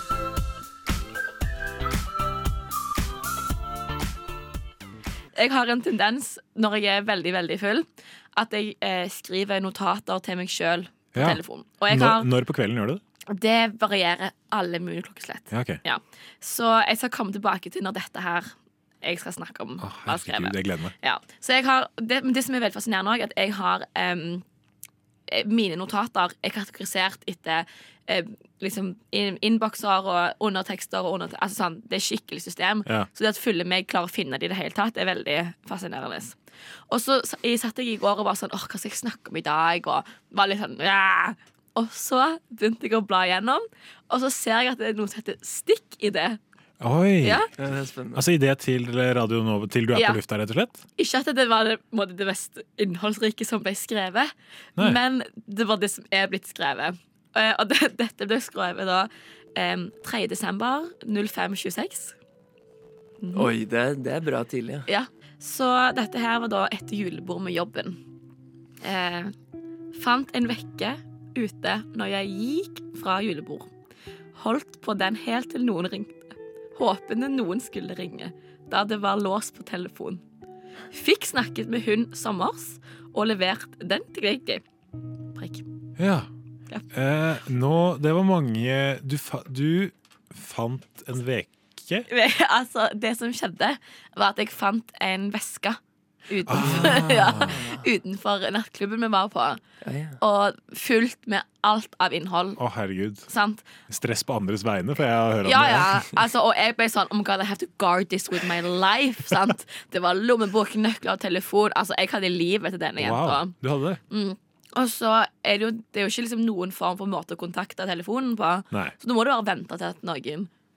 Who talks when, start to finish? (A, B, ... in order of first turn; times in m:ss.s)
0:05.3-0:12.3 A
0:11.1-0:13.0 B
0:13.3-0:24.4 A
0:15.5-0:15.8 B
0:19.8-0:20.9 B
0:25.3-0:36.4 A
0:36.9-0:46.4 A
0:46.8-0:47.4 B
0:47.6-0:48.2 C
0:48.1-0:50.8 B
0:51.0-1:02.1 A
1:03.2-1:03.5 A
1:03.4-1:04.9 C
1:04.9-1:08.0 A
1:08.8-1:09.3 A
1:09.9-1:13.7 A
1:14.4-1:20.2 A
1:20.9-1:24.6 A
1:25.4-1:25.6 A
1:26.0-1:26.3 B
1:26.9-1:32.0 B
1:32.1-1:39.6 A
1:36.5-1:37.6 B
1:36.6-1:37.7 C
1:39.8-1:40.2 C
1:40.2-1:42.6 A
1:42.6-1:43.3 B
1:43.3-1:43.7 A
1:43.9-1:46.1 B
1:45.4-1:53.6 A
1:53.0-1:54.0 B
1:54.1-2:00.5 A